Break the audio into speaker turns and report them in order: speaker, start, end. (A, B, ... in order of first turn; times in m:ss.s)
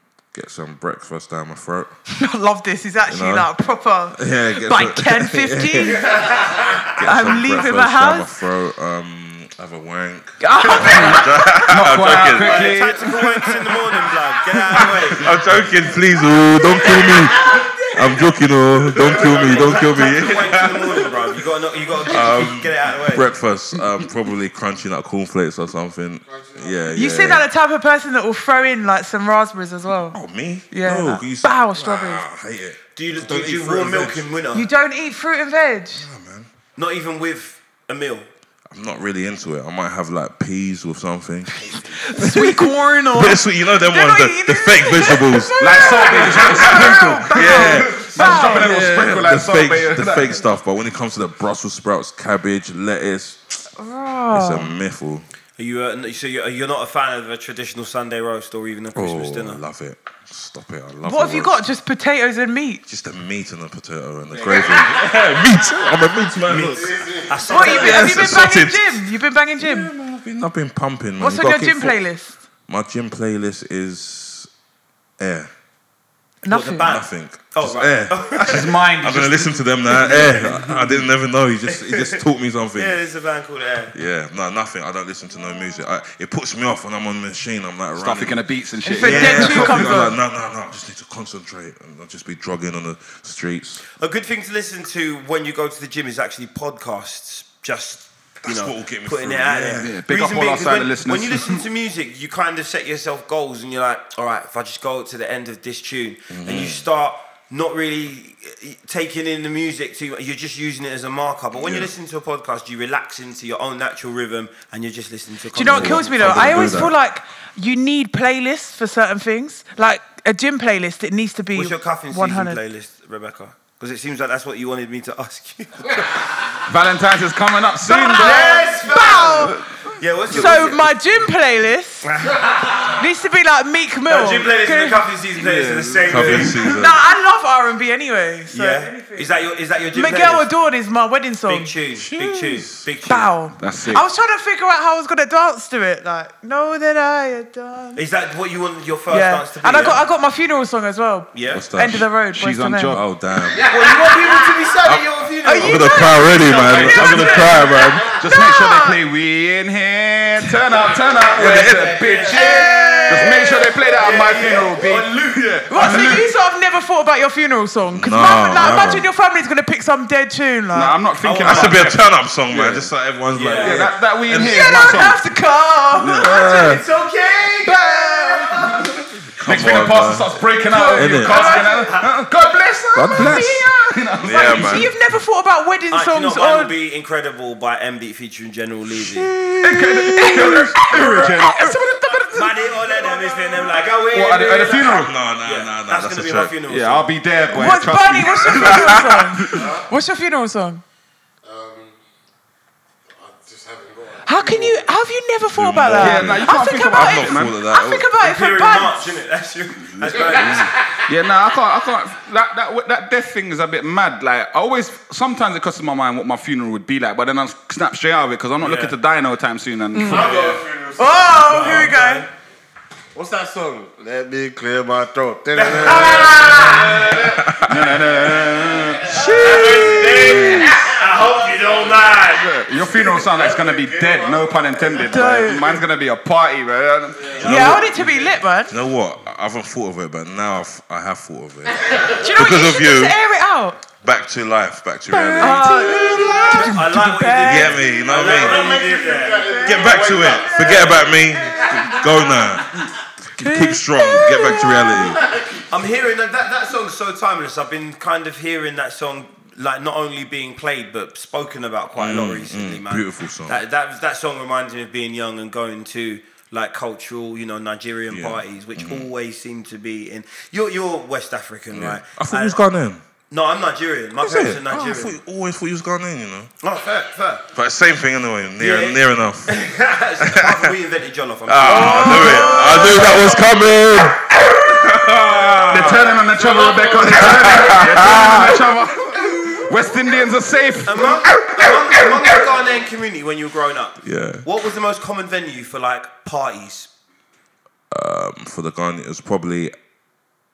0:00.3-0:01.9 A
0:02.2-0:06.2 B
0:03.1-0:03.5 A
0:04.1-0:12.8 A
0:06.1-0:06.8 C
0:07.0-0:08.3 B
0:10.4-0:11.3 B
0:11.6-0:13.5 D
0:12.2-0:15.6 C
0:14.8-0:21.1 A
0:19.0-0:23.3 C
0:22.0-0:27.5 A
0:26.3-0:26.9 E
0:26.9-0:30.2 B
0:30.1-0:34.3 A
0:30.7-0:32.2 B
0:33.0-0:34.7 C
0:34.5-0:36.1 B
0:36.0-0:36.5 A
0:36.8-0:38.3 C
0:38.7-0:53.7 A
0:41.7-0:48.8 B
0:45.6-0:50.4 D
0:53.8-0:54.8 B
0:54.3-0:55.3 A
0:55.6-0:59.6 C
0:59.0-1:01.6 A
1:01.0-1:02.8 B
1:02.9-1:12.0 A
1:04.5-1:05.0 E
1:06.5-1:08.3 C
1:06.7-1:07.8 E
1:07.5-1:09.9 B
1:11.2-1:12.3 B
1:12.7-1:14.5 A
1:15.2-1:15.5 A
1:16.4-1:16.9 B
1:16.5-1:18.7 C
1:16.8-1:23.0 A
1:18.4-1:20.7 D
1:20.0-1:20.6 C
1:21.7-1:22.2 C
1:22.8-1:23.9 C
1:23.9-1:33.9 A
1:28.0-1:30.2 D
1:28.8-1:30.2 B
1:34.0-1:56.7 C
1:38.4-1:40.0 A
1:39.8-1:41.6 D
1:46.3-1:46.8 A
1:51.6-1:51.9 A
1:55.5-2:02.6 B
1:55.7-1:57.0 A
2:01.5-2:06.6 C
2:06.6-2:10.9 D
2:07.8-2:09.6 B
2:08.1-2:10.9 C
2:10.3-2:12.1 B
2:12.0-2:13.0 C
2:12.8-2:15.0 B
2:14.1-2:16.6 C
2:15.4-2:16.6 D
2:16.1-2:17.0 A
2:16.6-2:19.3 B
2:18.5-2:20.5 C
2:19.9-2:21.7 B
2:21.5-2:23.3 C
2:22.0-2:22.9 A
2:23.1-2:28.0 B
2:23.6-2:24.1 D
2:28.0-2:30.0 C
2:29.1-2:32.9 B
2:31.3-2:31.6 C
2:31.5-2:32.1 A
2:32.3-2:33.0 D
2:32.9-2:33.7 A
2:33.6-2:34.3 E
2:33.6-2:38.0 C
2:34.8-2:38.1 A
2:35.4-2:39.0 B
2:38.2-2:46.3 D
2:41.4-2:42.4 A
2:41.4-2:46.2 C
2:42.2-2:43.7 B
2:45.7-2:51.0 B
2:47.9-2:49.1 A
2:50.7-2:52.9 D
2:51.2-2:51.9 C
2:51.4-2:55.1 A
2:53.3-2:54.0 C
2:53.6-2:55.2 D
2:54.3-2:56.4 B
2:55.9-2:56.8 A
2:56.1-2:58.9 C
2:57.7-3:04.9 D
2:59.4-3:00.4 A
3:00.7-3:02.2 C
3:01.0-3:01.6 A
3:01.3-3:01.7 B
3:02.9-3:03.6 A
3:03.1-3:06.7 B
3:04.2-3:05.0 A
3:05.9-3:09.3 C
3:08.9-3:11.4 A
3:09.6-3:12.7 D
3:10.0-3:12.3 B
3:12.3-3:17.1 C
3:13.1-3:13.8 B
3:14.1-3:15.1 D
3:14.8-3:16.6 A
3:16.7-3:19.7 D
3:17.5-3:20.8 B
3:18.5-3:19.1 A
3:19.4-3:19.9 E
3:21.4-3:22.0 E
3:23.1-3:24.9 E
3:24.2-3:29.2 B
3:25.5-3:28.1 A
3:25.9-3:27.6 D
3:28.2-3:30.8 C
3:30.2-3:40.6 D
3:30.2-3:30.6 A
3:38.6-3:39.0 C
3:39.9-3:40.4 B
3:40.0-3:42.3 E
3:40.2-3:40.6 C
3:41.0-3:42.3 B
3:43.1-3:47.6 E
3:45.5-3:47.2 C
3:46.0-3:46.6 B
3:46.7-3:48.0 A
3:47.6-3:49.4 D
3:48.7-3:50.3 E
3:49.1-3:52.5 C
3:49.1-3:50.7 A
3:49.3-3:49.8 B
3:50.3-3:50.7 B
3:50.8-3:52.1 E
3:52.4-3:57.8 D
3:52.9-3:55.8 E
3:55.0-3:55.8 B
3:57.4-3:58.8 B
3:57.4-4:03.2 A
4:02.0-4:03.8 B
4:04.0-4:06.8 A
4:05.1-4:07.8 B
4:05.4-4:05.8 D
4:05.8-4:06.1 E
4:06.5-4:10.9 C
4:07.4-4:08.7 A
4:08.1-4:12.0 E
4:09.4-4:10.8 B
4:09.6-4:15.2 A
4:11.3-4:12.5 B
4:13.4-4:15.2 B
4:15.1-4:15.8 E
4:15.7-4:32.6 C
4:22.0-4:23.6 A
4:28.1-4:29.1 A
4:31.7-4:33.0 A
4:33.3-4:35.2 C
4:34.2-4:36.5 A
4:36.6-4:37.4 C
4:37.5-4:39.6 A
4:38.6-4:43.0 C
4:40.2-4:40.6 A
4:41.5-4:46.2 A
4:41.7-4:43.4 B
4:45.7-4:51.2 D
4:46.3-4:47.6 E
4:47.1-4:49.6 A
4:50.8-4:56.9 C
4:51.4-4:51.7 A
4:54.0-4:54.5 A
4:57.9-4:59.7 A